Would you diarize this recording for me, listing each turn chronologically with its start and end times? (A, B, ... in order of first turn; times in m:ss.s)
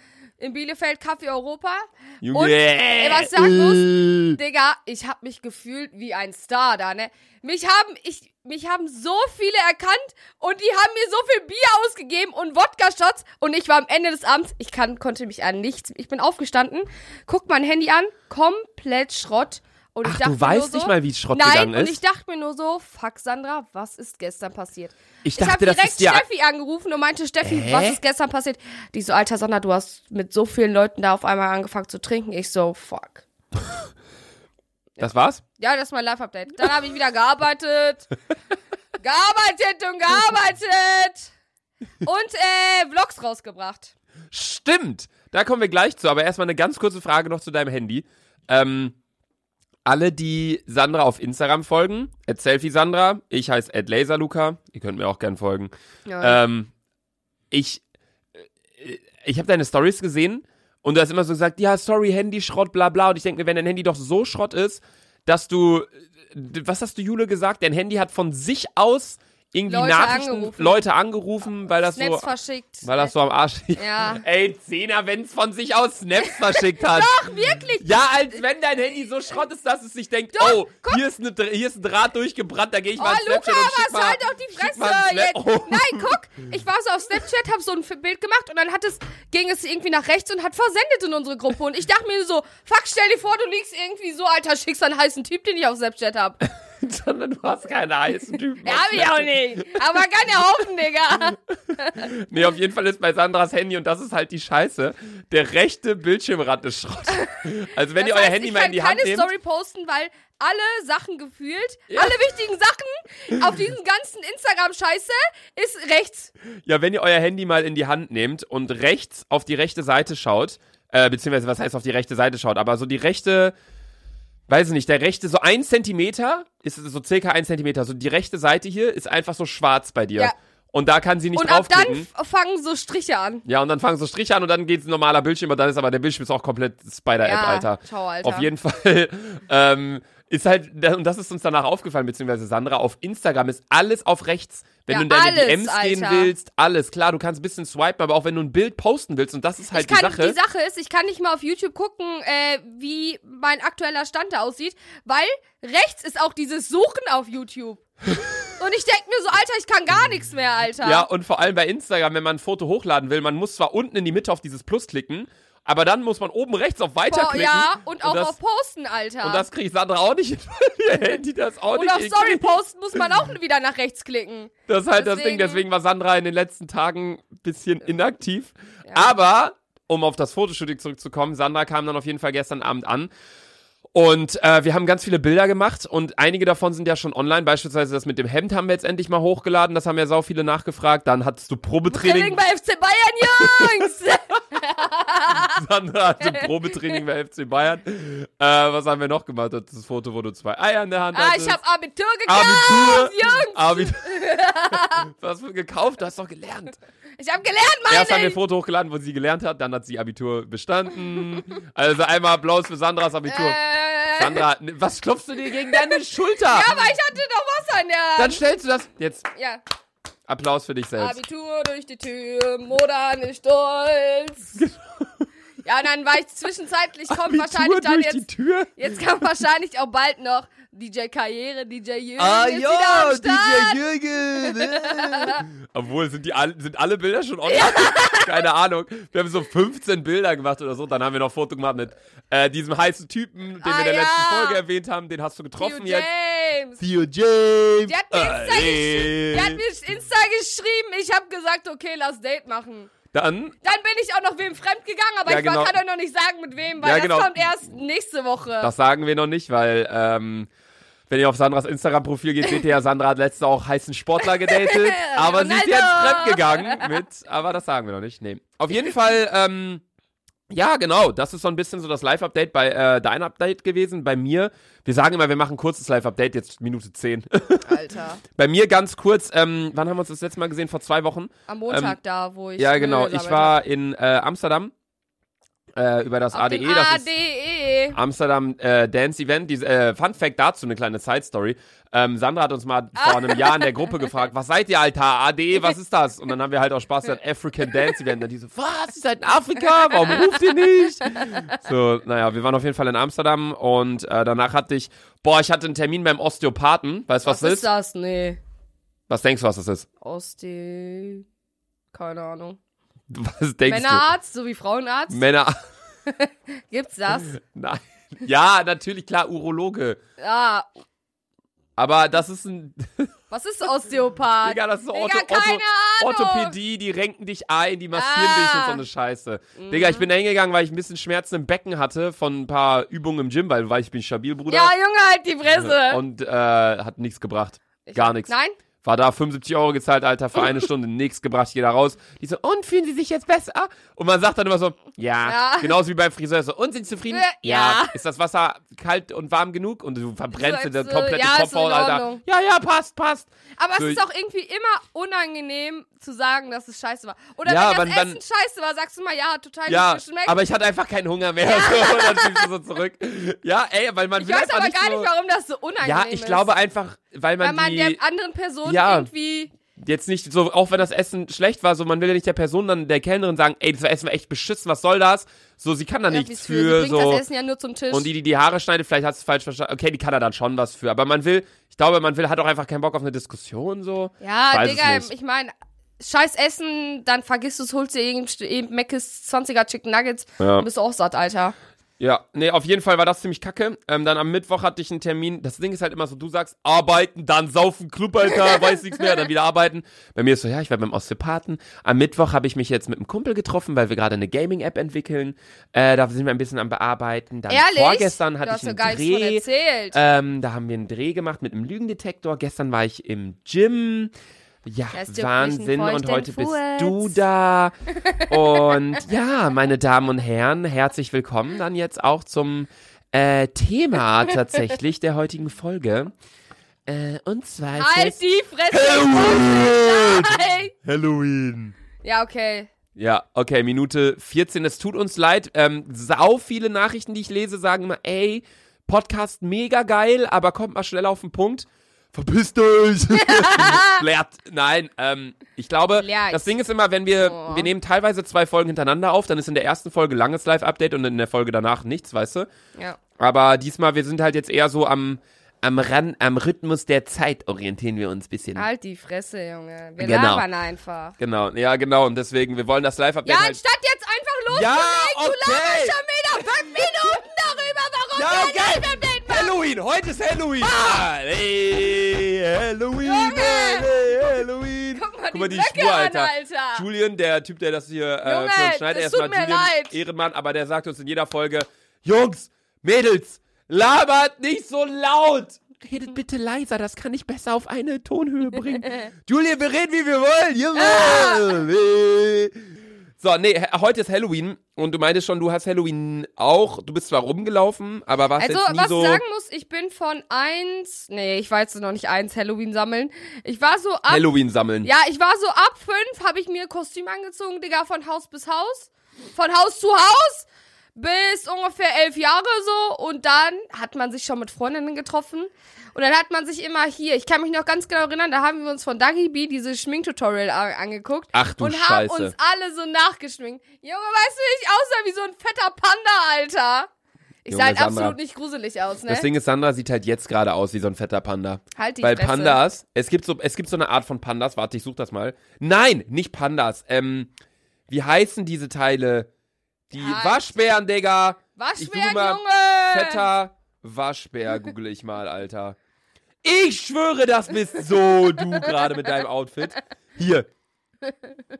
0:00.4-0:33.2 A
0:02.2-0:04.4 B
0:20.0-0:22.0 B
0:25.2-0:26.2 B
0:27.4-0:28.0 B
0:35.0-0:35.4 B
0:35.6-0:38.1 A
0:39.0-0:41.3 A
0:42.0-0:43.9 A
0:44.3-0:49.0 B
0:49.8-0:56.7 B
0:56.1-0:56.4 A
0:57.5-0:57.8 B
0:58.4-1:12.3 B
1:09.6-1:10.8 A
1:11.9-1:13.1 A
1:12.8-1:17.2 B
1:13.8-1:14.2 A
1:16.2-1:18.0 A
1:17.8-1:26.1 B
1:20.3-1:21.0 A
1:23.0-1:36.4 A
1:36.4-1:39.8 B
1:38.6-1:42.1 A
1:42.0-1:49.3 B
1:47.9-1:56.3 A
1:51.9-1:52.2 B
1:56.6-2:03.5 B
2:04.5-2:12.1 B
2:11.3-2:13.4 A
2:13.4-2:30.4 B
2:17.2-2:18.5 A
2:24.9-2:26.3 A
2:29.7-2:37.9 A
2:38.4-2:41.1 A
2:40.8-2:48.4 B
2:47.1-2:49.4 A
2:49.2-2:52.6 B
2:51.7-2:55.6 A
2:54.7-3:03.1 B
2:58.8-2:59.1 A
3:03.9-3:12.4 B
3:11.9-3:15.6 A
3:13.3-3:13.9 B
3:15.3-3:21.6 B
3:16.2-3:17.0 A
3:21.1-3:25.1 A
3:22.2-3:26.8 B
3:27.2-3:28.4 A
3:27.9-3:33.6 B
3:33.3-3:34.4 A
3:34.1-3:36.8 B
3:35.7-3:38.5 A
3:38.2-3:39.3 B
3:39.3-3:39.6 A
3:40.3-3:41.2 B
3:41.0-3:44.6 A
3:44.6-3:45.3 B
3:45.6-3:48.2 A
3:47.1-3:48.8 B
3:48.8-3:53.8 A
3:52.2-4:06.1 B
3:54.3-3:55.4 A
3:57.5-3:58.4 A
4:03.6-4:04.6 A
4:05.6-4:06.8 A
4:06.8-4:09.6 B
4:07.8-4:12.9 A
4:13.1-4:13.6 B
4:13.6-4:18.7 A
4:15.2-4:15.7 B
4:16.8-4:17.4 B
4:18.6-4:20.5 B
4:21.1-4:29.8 B
4:24.2-4:27.0 A
4:30.5-4:37.8 B
4:37.6-4:38.2 A
4:38.4-4:42.0 B
4:41.5-4:43.6 A
4:42.6-4:44.7 B
4:45.8-4:47.1 B
4:46.3-4:48.0 A
4:47.9-5:07.7 B
4:53.0-4:53.7 A
5:01.1-5:01.4 A
5:07.2-5:08.4 A
5:09.1-5:09.9 B
5:10.0-5:11.2 A
5:11.9-5:12.6 A
5:13.1-5:14.0 B
5:13.7-5:15.2 A
5:15.1-5:15.6 B
5:16.0-5:17.3 A
5:17.2-5:20.0 B
5:20.2-5:20.8 A
5:21.8-5:23.1 B
5:23.3-5:26.5 A
5:24.4-5:34.7 B
5:27.9-5:28.8 A
5:29.6-5:30.0 A
5:34.5-5:36.0 A
5:35.5-5:54.0 B
5:37.8-5:38.6 A
5:45.2-5:45.8 A
5:47.1-5:48.0 A
5:50.3-5:52.2 A
5:53.6-6:00.4 A
5:57.4-5:58.2 B
5:59.7-6:05.1 B
6:01.4-6:02.5 A
6:04.2-6:06.5 A
6:05.8-6:08.0 B
6:07.4-6:09.5 A
6:08.6-6:09.1 B
6:09.8-6:17.2 B
6:16.1-6:18.1 A
6:17.9-6:25.1 B
6:24.2-6:31.5 A
6:30.4-6:30.6 B
6:32.0-6:54.1 B
6:47.5-6:50.0 A
6:54.6-7:06.1 B
6:54.9-6:57.2 A
6:58.0-6:58.7 A
7:06.9-7:08.2 B
7:07.8-7:10.7 A
7:08.7-7:11.8 B
7:12.0-7:12.7 A
7:13.0-7:32.5 B
7:23.2-7:24.0 A
7:26.0-7:26.5 A
7:27.2-7:27.7 A
7:33.2-7:38.7 B
7:38.5-7:41.1 A
7:40.0-7:40.4 B
7:41.2-7:43.6 B
7:43.2-7:49.6 A
7:44.5-7:46.0 B
7:46.6-7:47.2 B
7:48.1-8:12.6 B
7:50.6-7:51.0 A
7:53.0-7:53.9 A
7:54.9-7:56.8 A
7:58.2-8:00.0 A
8:10.7-8:11.6 A
8:13.2-8:19.2 B
8:18.4-8:24.2 A
8:24.1-8:24.9 B
8:24.8-8:46.9 A
8:41.3-8:42.3 B
8:47.4-8:49.3 A
8:47.5-8:48.2 B
8:49.1-8:57.3 B
8:51.8-8:52.6 A
8:57.9-8:59.3 B
8:59.9-9:05.8 B
8:59.9-9:00.6 A
9:01.6-9:03.2 A
9:06.4-9:10.5 B